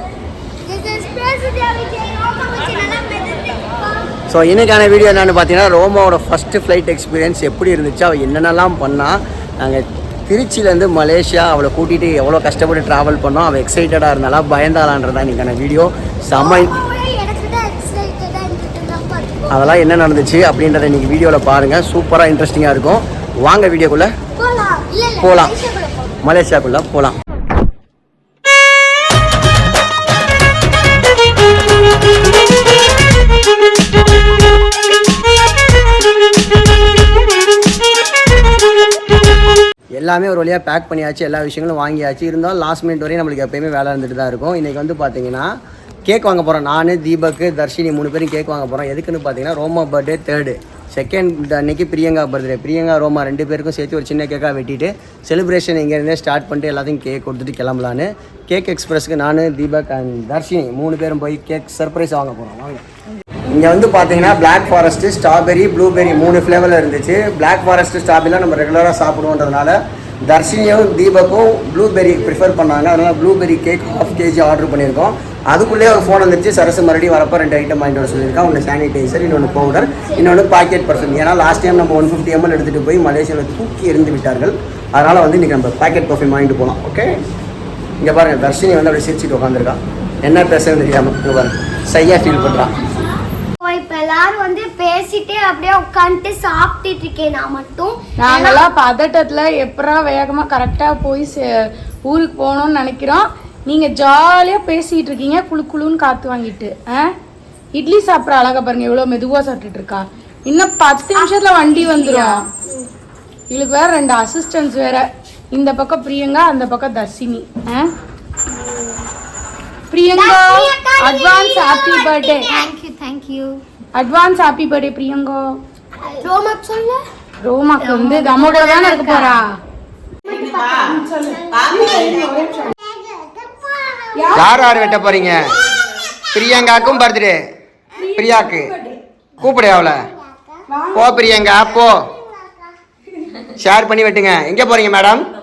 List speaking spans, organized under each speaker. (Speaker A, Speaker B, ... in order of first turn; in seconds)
Speaker A: 0.6-4.2, 16.3-19.7, 24.3-26.1, 93.6-98.7, 111.1-112.9, 118.5-119.1, 120.1-123.6, 126.0-127.0, 127.8-129.4, 130.2-135.3, 136.4-136.8, 140.2-140.6, 141.9-142.5
Speaker B: 4.3-16.8, 19.5-24.1, 25.2-25.6, 26.2-27.1, 40.0-45.5, 46.0-62.8, 63.5-69.8, 70.3-87.2, 88.0-92.7, 134.3-135.4, 136.3-137.4, 138.1-138.7, 139.4-140.0, 140.9-142.1, 143.6-145.2
Speaker C: 98.2-101.5, 102.1-107.1, 107.7-112.3, 113.5-117.9, 119.9-122.5, 123.9-125.4, 127.4-129.5, 130.6-132.7, 134.1-134.6, 138.0-139.0, 140.7-141.4